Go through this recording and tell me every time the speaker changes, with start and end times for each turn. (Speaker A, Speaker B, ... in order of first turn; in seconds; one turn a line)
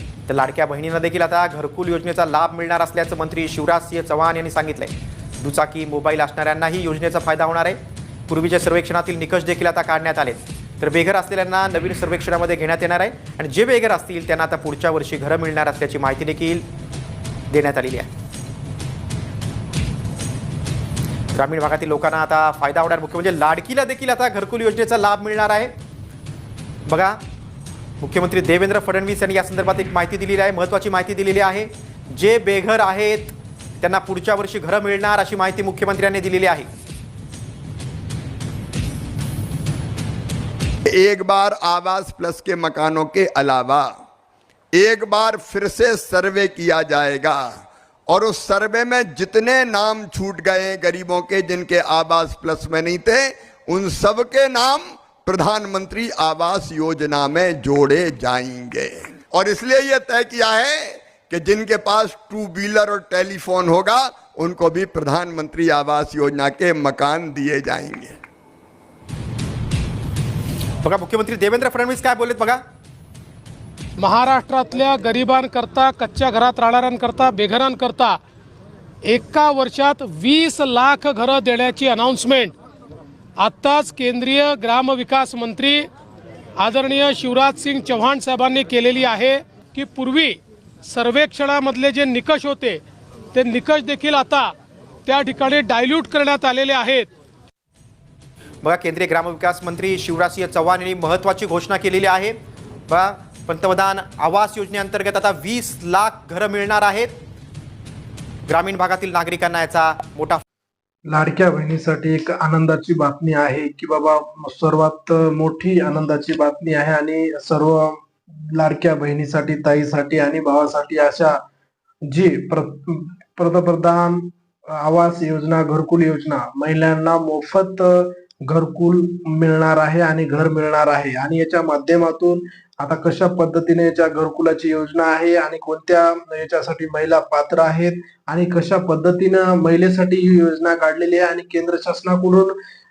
Speaker A: 0.3-16.6
Speaker A: 17.5-18.1
Speaker A: 21.3-25.7
Speaker A: 26.9-27.2
Speaker A: 28.0-36.7
Speaker B: 40.9-43.9
Speaker B: 44.8-68.2
Speaker A: 70.8-72.6
Speaker C: 74.0-78.2
Speaker C: 79.1-82.5
Speaker C: 83.4-85.9
Speaker C: 86.6-92.8
Speaker C: 93.3-94.5
Speaker C: 95.1-97.1
Speaker A: 98.6-102.3
Speaker A: 102.9-107.1
Speaker A: 108.5-110.4
Speaker D: 111.1-118.0
Speaker D: 118.5-121.4
Speaker D: 122.1-142.6